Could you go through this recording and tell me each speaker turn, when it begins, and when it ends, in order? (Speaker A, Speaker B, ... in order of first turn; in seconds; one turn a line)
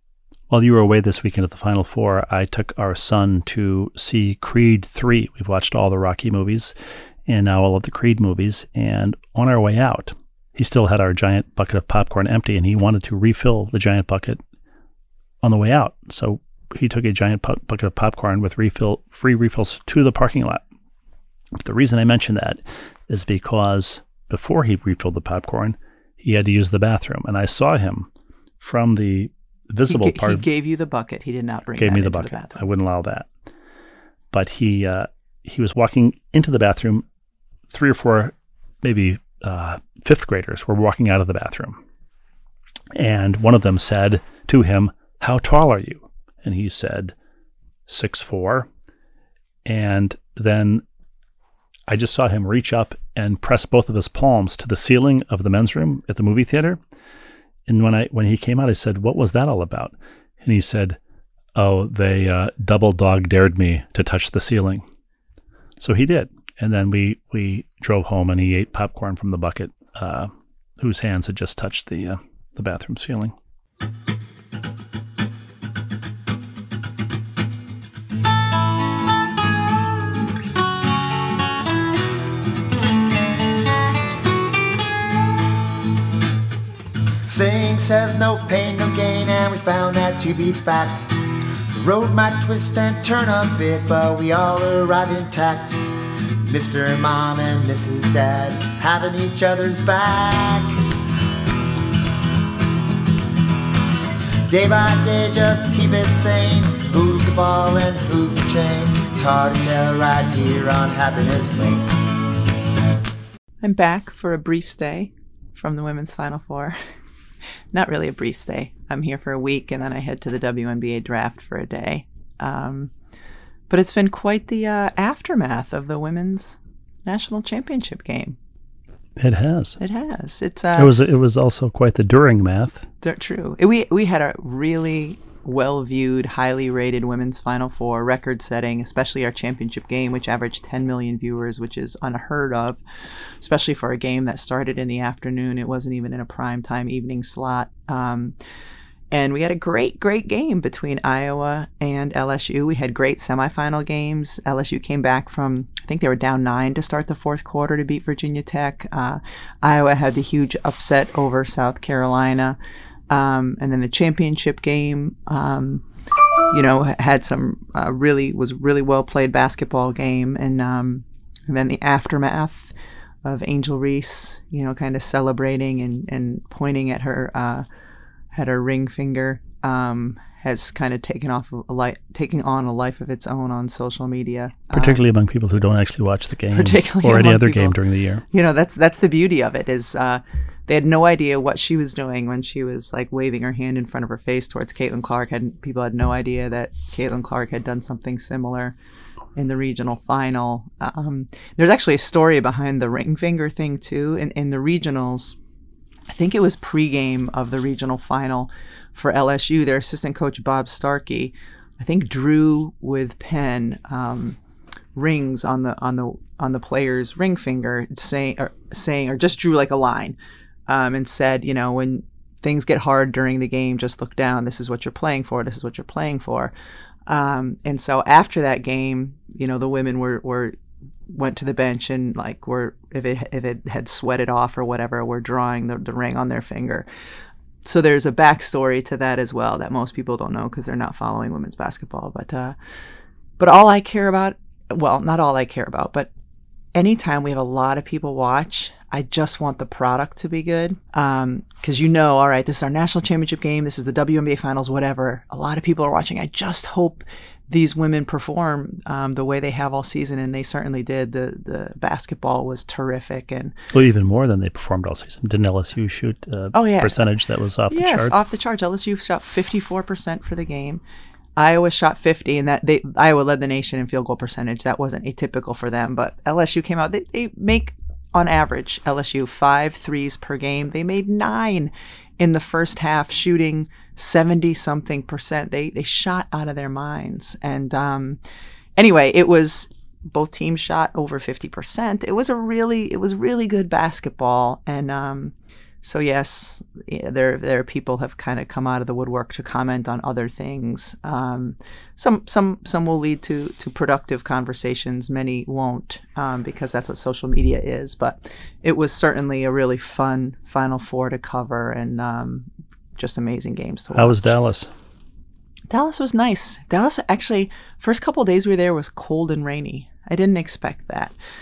Speaker A: 0.5-6.7
Speaker A: 7.3-14.4
Speaker A: 15.4-20.6
Speaker A: 21.5-28.1
Speaker A: 28.6-30.4
Speaker B: 29.9-32.6
Speaker A: 31.8-33.3
Speaker A: 34.3-37.0
Speaker A: 37.7-41.8
Speaker A: 43.0-47.1
Speaker A: 47.9-48.7
Speaker A: 49.6-50.8
Speaker A: 51.9-56.8
Speaker A: 57.7-61.0
Speaker A: 61.5-64.8
Speaker A: 65.8-73.3
Speaker C: 87.2-91.2
Speaker C: 91.8-95.8
Speaker C: 96.4-100.9
Speaker C: 104.5-111.9
Speaker B: 113.6-116.8
Speaker B: 117.7-122.9
Speaker B: 123.7-128.4
Speaker A: 129.2-129.8
Speaker B: 129.8-130.9
Speaker A: 130.8-132.9
Speaker B: 133.0-148.3
Speaker B: 149.1-162.6
Speaker B: 163.1-165.8
Speaker B: 166.5-172.7
Speaker B: 173.2-177.7
Speaker B: 178.3-185.0
Speaker A: 184.7-188.2
Speaker B: 186.5-187.8
Speaker B: 188.3-198.8
Speaker B: 199.4-205.4
Speaker B: 206.1-214.4
Speaker B: 214.9-220.2
Speaker B: 220.7-226.5
Speaker B: 227.1-230.6
Speaker B: 231.1-236.9
Speaker B: 237.7-242.6
Speaker B: 243.4-246.1
Speaker B: 246.7-263.6
Speaker A: 263.7-268.2
Speaker B: 266.5-267.1
Speaker B: 267.7-270.8
Speaker B: 271.4-288.2
Speaker B: 288.8-314.4
Speaker A: 313.9-314.7
Speaker B: 315.7-321.1